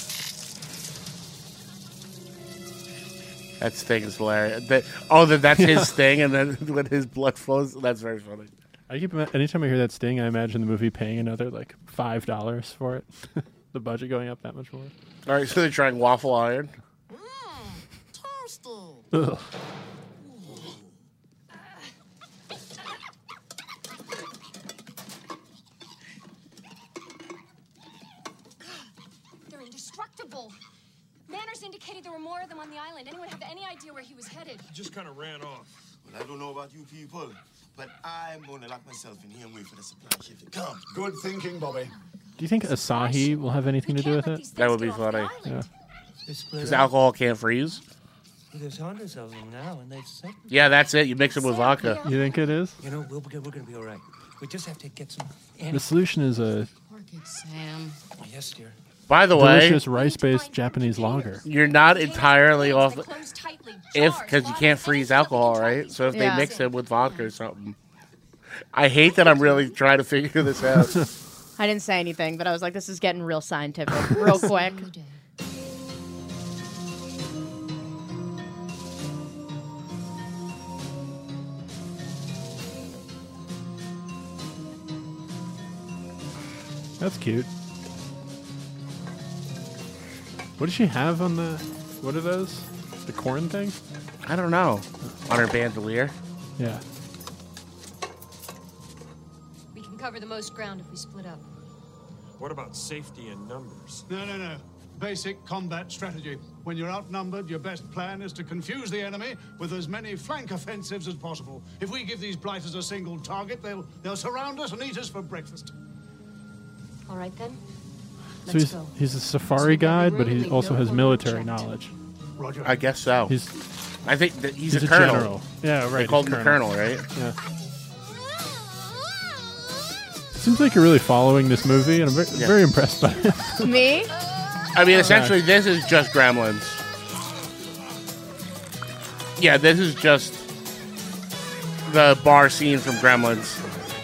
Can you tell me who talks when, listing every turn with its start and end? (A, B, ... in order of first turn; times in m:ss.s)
0:03.6-0:08.5 A
0:05.6-0:05.9 B
0:08.9-0:14.9 B
0:15.2-0:16.7 A
0:19.1-0:19.4 B
0:29.5-0:30.6 C
0:31.3-0:34.6 C
0:34.7-0:35.7 D
0:36.0-0:40.8 E
0:40.9-0:41.9 F
0:42.1-0:45.6 C
0:42.4-0:44.4 B
0:44.5-0:45.3 A
0:46.2-0:46.9 G
0:46.6-0:47.8 A
0:48.5-0:50.5 G
0:50.5-0:52.0 A
0:51.2-0:52.4 C
0:52.0-0:52.8 B
0:52.8-0:55.9 G
0:55.7-0:56.7 B
0:56.9-0:58.0 C
0:58.2-0:58.8 G
0:59.1-0:59.8 A
0:59.3-1:01.4 B
0:59.8-1:07.2 C
1:01.4-1:03.1 A
1:03.9-1:07.8 A
1:06.1-1:06.5 H
1:08.7-1:11.0 A
1:11.6-1:14.9 H
1:14.2-1:15.2 C
1:27.0-1:27.5 B
1:30.6-1:33.8 B
1:34.2-1:36.1 A
1:36.6-1:36.8 B
1:39.7-1:41.5 C
1:42.4-1:44.0 D
1:44.1-1:55.7 F
1:57.0-1:57.6 C
1:58.4-1:58.9 C
1:58.5-2:01.9 B
1:59.5-2:01.7 C
2:02.4-2:02.8 F
2:02.6-2:03.3 A
2:03.3-2:03.6 B
2:04.0-2:05.3 A
2:04.7-2:07.4 B
2:05.9-2:07.0 A
2:10.3-2:13.7 B
2:13.6-2:14.1 H
2:14.7-2:16.8 A
2:14.9-2:15.4 B
2:19.4-2:20.4 A
2:21.8-2:23.6 A